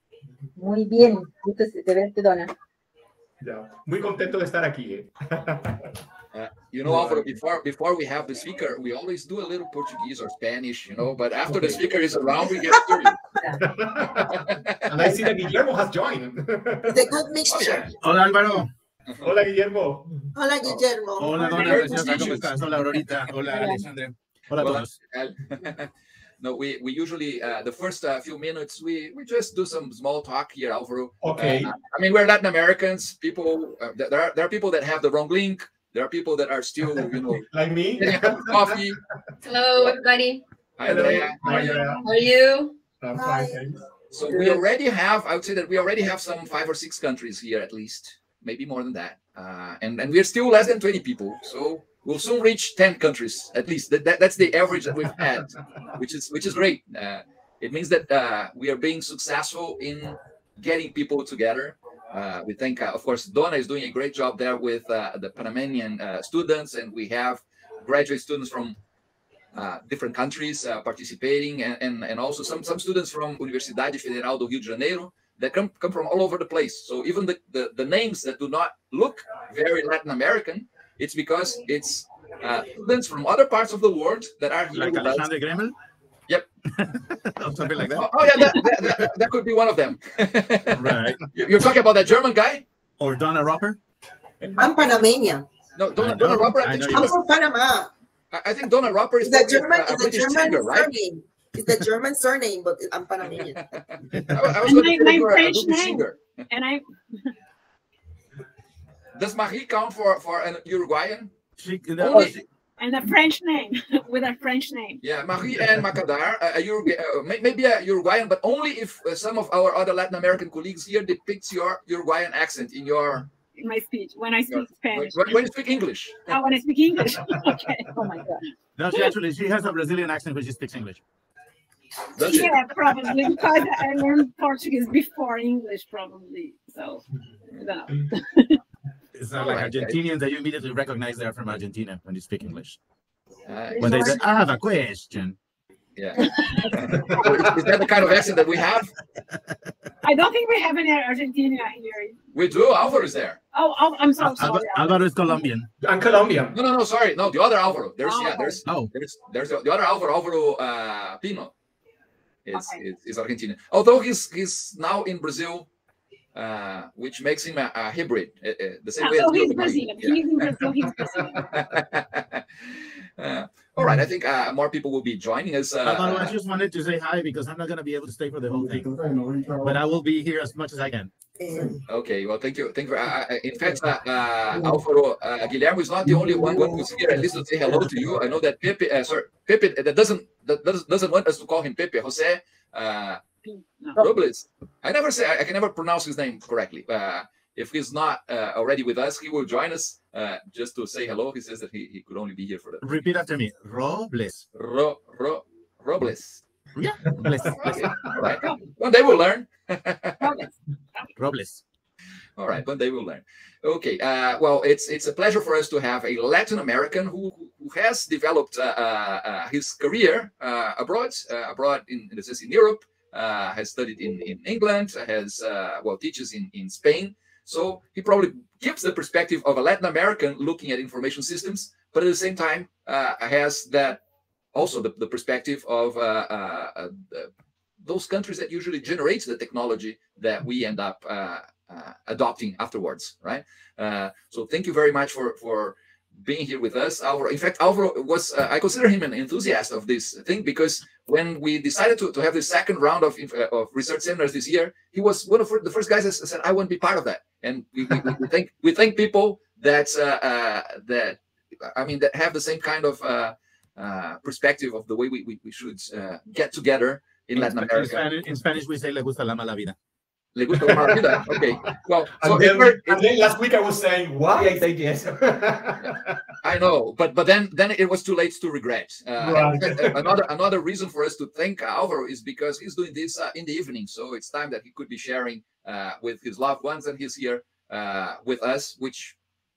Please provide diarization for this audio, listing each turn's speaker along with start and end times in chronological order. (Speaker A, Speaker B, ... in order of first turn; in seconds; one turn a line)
Speaker A: 0.6-2.5
Speaker B: 3.4-5.9
Speaker C: 6.3-13.2
Speaker B: 6.8-7.2
Speaker B: 11.5-11.8
Speaker B: 13.6-17.1
Speaker C: 14.2-15.3
Speaker D: 16.9-18.0
Speaker C: 17.5-17.9
Speaker E: 18.0-18.7
Speaker B: 19.2-20.2
Speaker D: 20.4-22.4
Speaker E: 21.2-24.9
Speaker C: 21.5-22.6
Speaker C: 24.5-37.5
Speaker B: 31.2-31.7
Speaker B: 37.4-38.7
Speaker C: 38.0-39.0
Speaker F: 39.4-42.8
Speaker C: 40.8-41.7
Speaker B: 40.9-42.0
Speaker G: 41.5-42.0
Speaker B: 43.0-43.8
Speaker D: 43.1-43.6
Speaker C: 44.1-68.8
Speaker F: 44.3-44.6
Speaker C: 69.5-85.3
Speaker E: 84.7-85.8
Speaker E: 86.8-88.1
Speaker C: 87.9-92.7
Speaker E: 90.8-91.2
Speaker E: 93.0-93.8
Speaker D: 94.6-95.5
Speaker C: 95.8-97.2
Speaker E: 96.0-97.1
Speaker D: 96.2-97.9
Speaker C: 98.3-100.9
Speaker D: 99.2-103.7
Speaker C: 103.4-106.2
Speaker G: 104.6-107.3
Speaker C: 109.1-111.3
Speaker E: 111.6-112.5
Speaker C: 112.0-112.4
Speaker G: 112.8-115.0
Speaker C: 115.0-123.3
Speaker G: 123.5-125.4
Speaker C: 124.5-126.4
Speaker G: 126.2-129.1
Speaker E: 128.8-131.0
Speaker C: 132.2-132.6
Speaker G: 132.2-137.1
Speaker G: 137.6-138.6
Speaker E: 139.2-142.8
Speaker C: 139.3-140.0
Speaker C: 143.5-144.2
Speaker G: 143.8-144.2
Speaker E: 143.8-145.4
Speaker C: 146.0-148.9
Speaker G: 146.2-147.5
Speaker G: 150.0-152.2
Speaker C: 152.3-153.4
Speaker G: 153.5-155.4
Speaker E: 154.2-155.7
Speaker B: 154.4-154.7
Speaker B: 155.8-156.6
Speaker C: 156.5-161.5
Speaker G: 158.0-158.6
Speaker E: 158.6-158.9
Speaker C: 162.5-165.7
Speaker G: 162.5-162.8
Speaker C: 166.3-176.3
Speaker G: 169.0-171.6
Speaker E: 175.8-179.0
Speaker B: 179.0-179.7
Speaker E: 179.6-181.1
Speaker D: 181.4-181.7
Speaker C: 181.9-193.2
Speaker G: 193.5-194.0
Speaker C: 194.0-203.1
Speaker E: 202.8-204.4
Speaker C: 204.5-206.4
Speaker E: 206.8-208.2
Speaker C: 207.6-210.4
Speaker G: 208.4-208.7
Speaker G: 210.2-210.5
Speaker E: 211.2-211.6
Speaker C: 212.4-234.0
Speaker C: 234.5-237.3
Speaker C: 237.8-268.1
Speaker E: 267.4-269.8
Speaker C: 270.4-273.0
Speaker B: 270.6-271.4
Speaker B: 272.2-276.2
Speaker C: 275.8-289.2
Speaker B: 279.2-280.1